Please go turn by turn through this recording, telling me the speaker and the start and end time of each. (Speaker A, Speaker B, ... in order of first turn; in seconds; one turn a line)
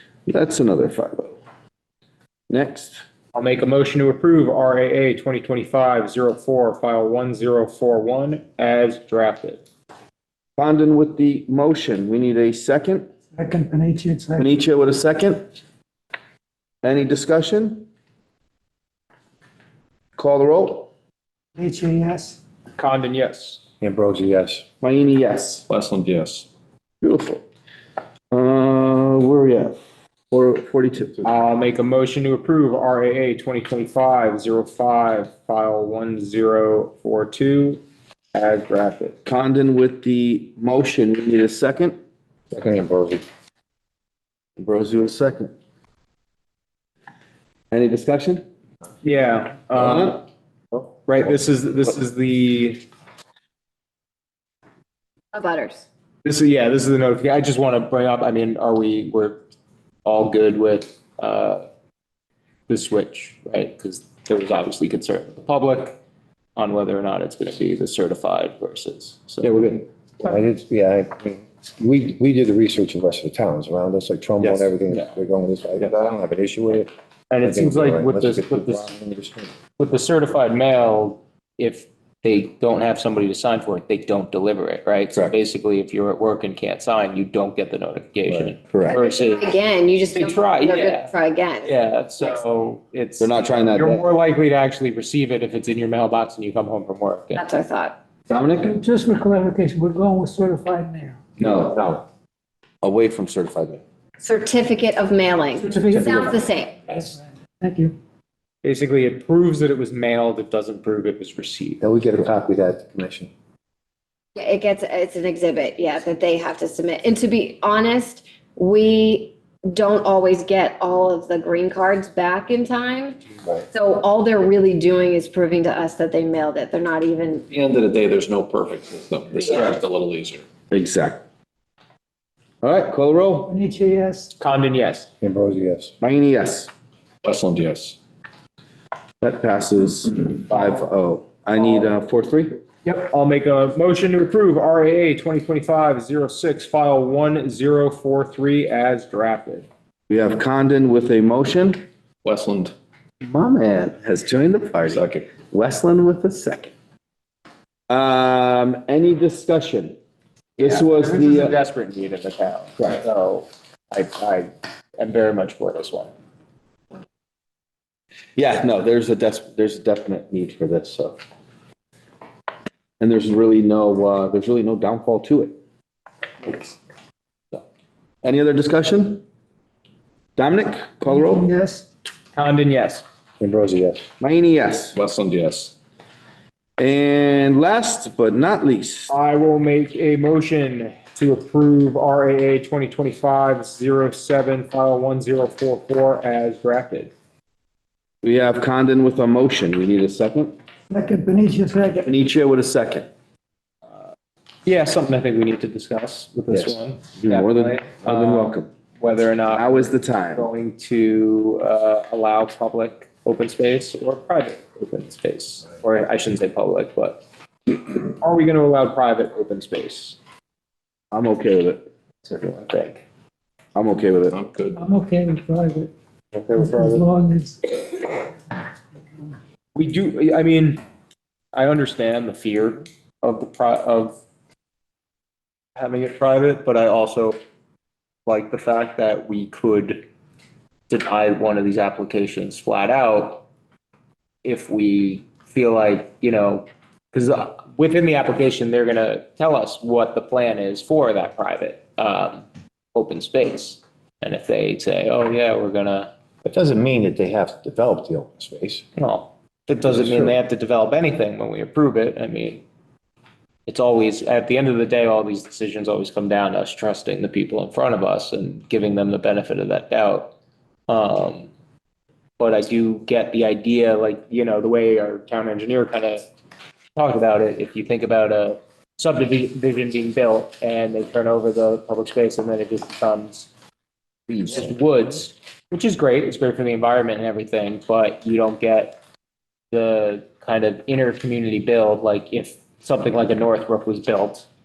Speaker A: 0.2-1.4
Speaker A: 2.5-3.0
Speaker B: 3.3-9.6
Speaker A: 10.6-13.1
Speaker C: 13.3-14.5
Speaker A: 14.4-15.4
Speaker A: 16.8-17.9
Speaker A: 20.2-20.9
Speaker C: 21.6-22.4
Speaker B: 22.8-23.6
Speaker D: 23.8-24.6
Speaker A: 24.8-25.6
Speaker E: 25.7-26.5
Speaker A: 27.0-27.4
Speaker A: 28.3-29.7
Speaker A: 30.3-31.3
Speaker B: 31.2-37.8
Speaker B: 38.3-39.2
Speaker A: 39.2-42.0
Speaker D: 42.5-43.2
Speaker A: 44.6-45.5
Speaker A: 47.7-48.5
Speaker B: 49.0-50.2
Speaker A: 49.8-50.2
Speaker B: 51.0-52.8
Speaker F: 55.3-55.9
Speaker B: 56.2-59.4
Speaker B: 60.0-61.6
Speaker B: 62.7-66.0
Speaker B: 66.6-69.5
Speaker A: 69.4-69.8
Speaker D: 70.2-76.9
Speaker B: 77.3-78.9
Speaker D: 77.4-79.5
Speaker B: 79.8-89.5
Speaker A: 88.7-89.0
Speaker F: 88.9-91.7
Speaker B: 90.1-91.1
Speaker B: 91.6-97.4
Speaker A: 93.2-94.0
Speaker F: 97.4-98.0
Speaker A: 98.3-98.8
Speaker C: 98.7-101.2
Speaker A: 101.4-102.0
Speaker A: 102.8-103.8
Speaker F: 104.2-107.0
Speaker C: 105.7-106.2
Speaker C: 107.0-108.0
Speaker B: 108.6-111.8
Speaker D: 111.8-113.3
Speaker F: 114.4-127.5
Speaker E: 127.5-130.4
Speaker A: 130.7-131.2
Speaker A: 132.6-133.5
Speaker C: 133.5-134.3
Speaker B: 134.4-135.1
Speaker D: 135.2-135.9
Speaker A: 136.0-136.7
Speaker E: 137.2-138.0
Speaker A: 139.2-142.6
Speaker B: 142.8-149.7
Speaker A: 150.1-151.8
Speaker E: 152.2-152.7
Speaker A: 153.2-156.7
Speaker E: 154.8-155.3
Speaker A: 157.9-160.0
Speaker A: 160.6-161.5
Speaker B: 160.6-166.1
Speaker A: 168.3-171.2
Speaker A: 173.0-175.6
Speaker A: 178.2-179.2
Speaker A: 180.3-181.5
Speaker C: 181.1-181.8
Speaker B: 182.3-183.0
Speaker D: 183.4-184.0
Speaker A: 184.2-184.9
Speaker E: 184.9-185.7
Speaker A: 186.8-189.1
Speaker B: 189.1-197.1
Speaker A: 198.2-200.5
Speaker C: 200.9-202.1
Speaker A: 202.0-203.1
Speaker B: 204.7-220.2
Speaker A: 206.5-208.7
Speaker A: 209.5-210.4
Speaker A: 221.1-221.8
Speaker B: 222.3-223.0
Speaker A: 223.8-224.4
Speaker E: 224.3-224.8
Speaker C: 224.7-225.9
Speaker B: 226.3-226.8
Speaker C: 226.6-228.3
Speaker B: 229.8-230.8
Speaker B: 231.5-234.2
Speaker B: 235.8-237.4
Speaker B: 238.2-240.0
Speaker B: 240.9-243.4
Speaker B: 244.4-256.1
Speaker D: 256.4-258.8
Speaker B: 259.0-262.6
Speaker D: 259.9-260.3
Speaker B: 263.7-270.3
Speaker B: 270.9-271.5
Speaker B: 272.4-276.2
Speaker B: 277.0-283.5
Speaker B: 284.3-289.0
Speaker B: 289.7-294.5